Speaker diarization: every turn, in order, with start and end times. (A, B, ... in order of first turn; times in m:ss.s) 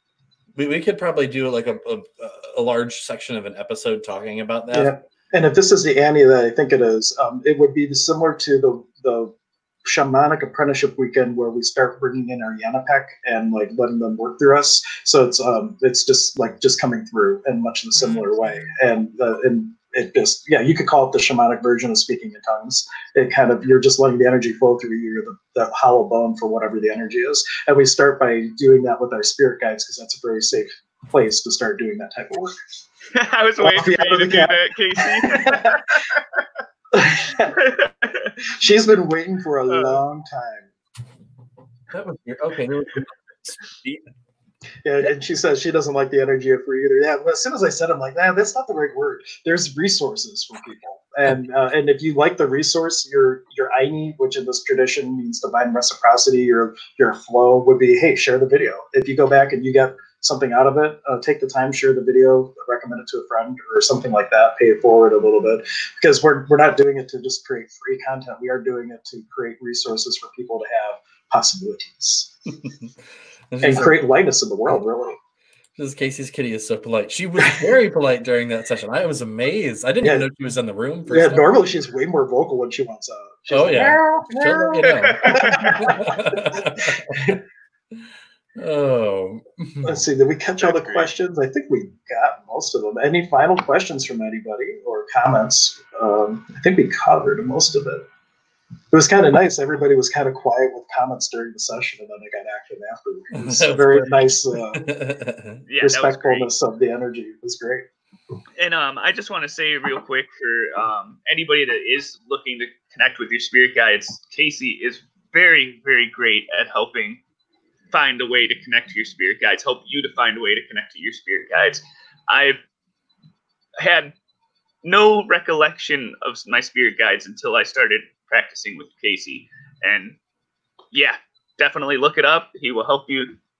0:00.6-0:04.9 A
0:04.7-0:09.3 B
0:09.8-0:32.5 B
0:33.1-0:36.2 C
0:33.6-0:35.9 B
0:36.9-0:37.6 B
0:37.6-0:38.3 C
0:38.5-0:40.7 B
0:41.9-0:44.0 A
0:44.8-1:12.3 B
1:13.5-1:14.0 A
1:13.6-1:15.2 B
1:15.8-1:21.6 A
1:21.1-1:27.4 B
1:23.5-1:27.4 A
1:24.8-1:25.8 C
1:27.9-1:30.0 A
1:29.8-1:38.0 B
1:30.6-1:31.1 C
1:38.9-1:44.8 B
1:43.3-1:45.6 A
1:45.7-1:46.5 C
1:45.8-1:47.8 B
1:48.6-1:57.2 C
1:57.9-2:02.6 C
2:03.8-2:04.1 C
2:04.8-2:10.2 C
2:10.9-2:13.3 C